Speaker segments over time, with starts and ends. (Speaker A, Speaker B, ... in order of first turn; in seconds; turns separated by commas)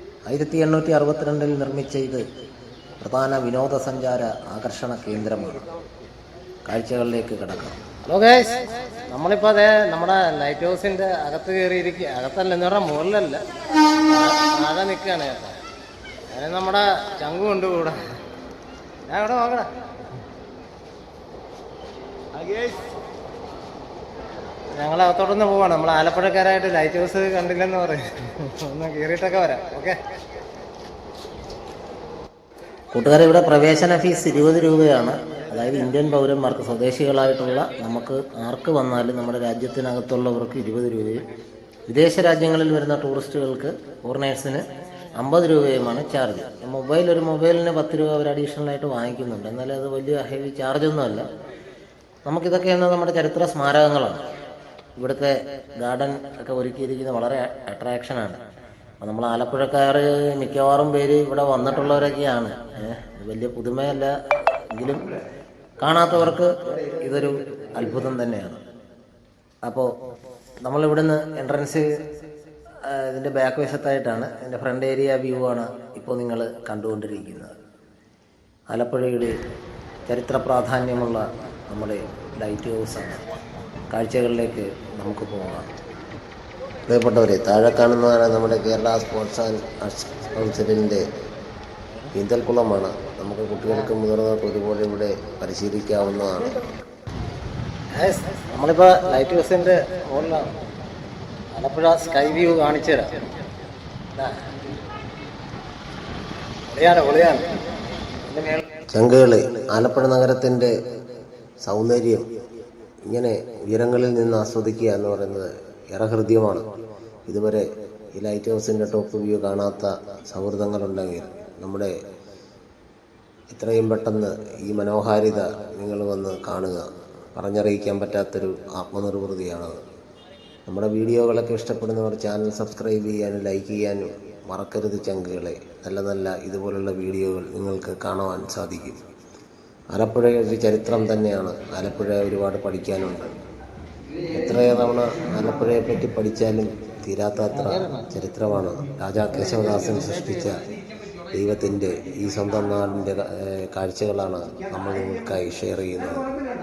Speaker A: 0.3-2.2, Speaker A: 3.0-5.7, Speaker A: 6.7-8.0, Speaker B: 8.1-13.4, Speaker B: 14.1-15.6, Speaker B: 16.3-18.1, Speaker B: 19.1-19.7, Speaker B: 22.5-22.7, Speaker B: 24.8-30.0, Speaker A: 32.9-41.2, Speaker A: 41.9-44.6, Speaker A: 45.2-51.3, Speaker A: 52.3-54.2, Speaker A: 55.0-58.4, Speaker A: 59.0-65.0, Speaker A: 65.8-68.6, Speaker A: 70.7-71.9, Speaker A: 72.9-77.6, Speaker A: 78.7-79.3, Speaker A: 80.1-83.4, Speaker A: 83.9-85.7, Speaker A: 86.9-91.0, Speaker A: 92.1-96.6, Speaker B: 98.0-100.5, Speaker A: 98.6-98.9, Speaker B: 101.6-103.0, Speaker B: 106.7-107.5, Speaker B: 108.3-108.6, Speaker A: 108.9-110.7, Speaker A: 111.6-112.3, Speaker A: 113.1-116.6, Speaker A: 117.3-121.9, Speaker A: 123.5-126.8, Speaker A: 127.3-129.8, Speaker A: 130.7-139.0, Speaker A: 139.9-143.3, Speaker A: 144.3-150.6, Speaker B: 147.7-148.1, Speaker A: 151.3-156.3